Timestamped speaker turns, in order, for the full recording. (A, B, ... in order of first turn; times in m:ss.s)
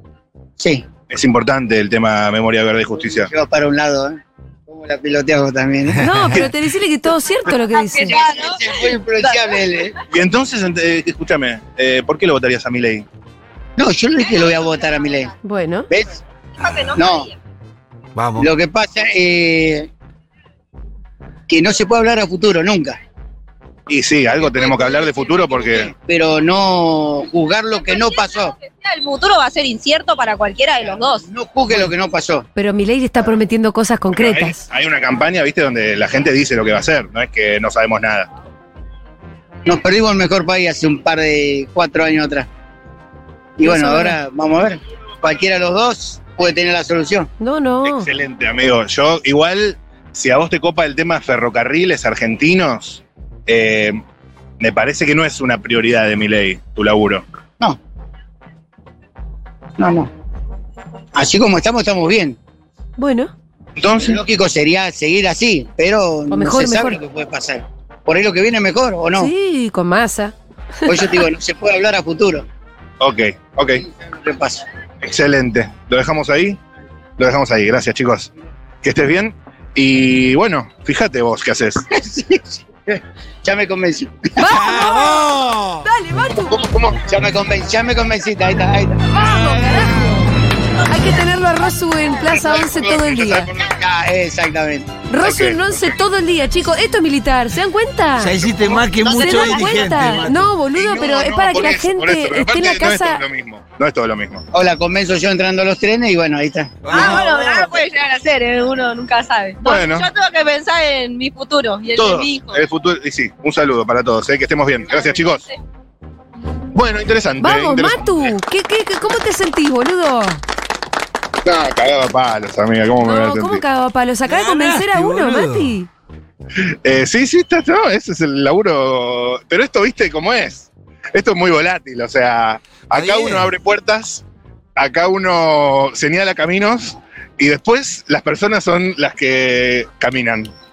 0:00.6-0:00.9 A
0:01.1-0:03.3 B
0:03.3-0:06.0 A
0:05.9-0:06.5 C
0:06.0-0:08.2 D
0:07.8-0:09.5 E
0:08.1-0:09.9 A
0:10.1-0:13.1 B
0:13.8-0:15.3 A
0:15.4-0:15.9 D
0:15.9-0:16.2 A
0:16.6-0:17.3 E
0:17.0-0:17.3 A
0:18.1-0:18.5 C
0:18.4-0:19.9 A
0:21.5-0:23.0 A
0:23.9-0:25.9 B
0:24.8-0:25.5 E
0:25.8-0:28.5 A
0:27.9-0:31.2 E
0:31.2-0:32.4 A
0:32.6-0:34.6 D
0:34.1-0:38.3 B
0:39.6-0:42.5 A
0:43.6-0:47.3 A
0:43.6-0:44.2 D
0:47.4-0:48.1 D
0:47.8-0:54.0 B
0:54.6-0:57.2 B
0:59.8-1:00.1 A
1:01.1-1:02.4 A
1:03.0-1:03.3 D
1:03.8-1:04.2 B
1:04.0-1:09.3 A
1:06.3-1:07.0 D
1:09.2-1:11.2 D
1:10.9-1:12.4 A
1:13.0-1:13.8 B
1:14.0-1:14.6 A
1:15.0-1:16.6 B
1:17.2-1:18.3 B
1:18.8-1:21.9 B
1:21.9-1:24.3 A
1:24.4-1:25.3 D
1:24.4-1:25.9 C
1:25.8-1:26.7 D
1:26.5-1:27.0 B
1:27.1-1:29.1 A
1:29.1-1:30.2 D
1:30.9-1:33.5 D
1:32.3-1:33.7 B
1:33.6-1:35.0 A
1:35.1-1:38.4 D
1:35.2-1:35.9 B
1:38.2-1:40.5 C
1:39.0-1:43.2 D
1:40.7-1:44.4 B
1:44.5-1:46.9 A
1:46.8-1:47.4 C
1:46.9-1:52.6 E
1:49.6-1:50.1 B
1:51.9-1:55.4 B
1:56.7-1:58.4 B
1:57.4-2:00.4 D
2:01.4-2:03.6 B
2:03.0-2:05.9 D
2:04.2-2:05.8 C
2:06.8-2:14.2 B
2:12.9-2:13.5 C
2:14.8-2:20.5 B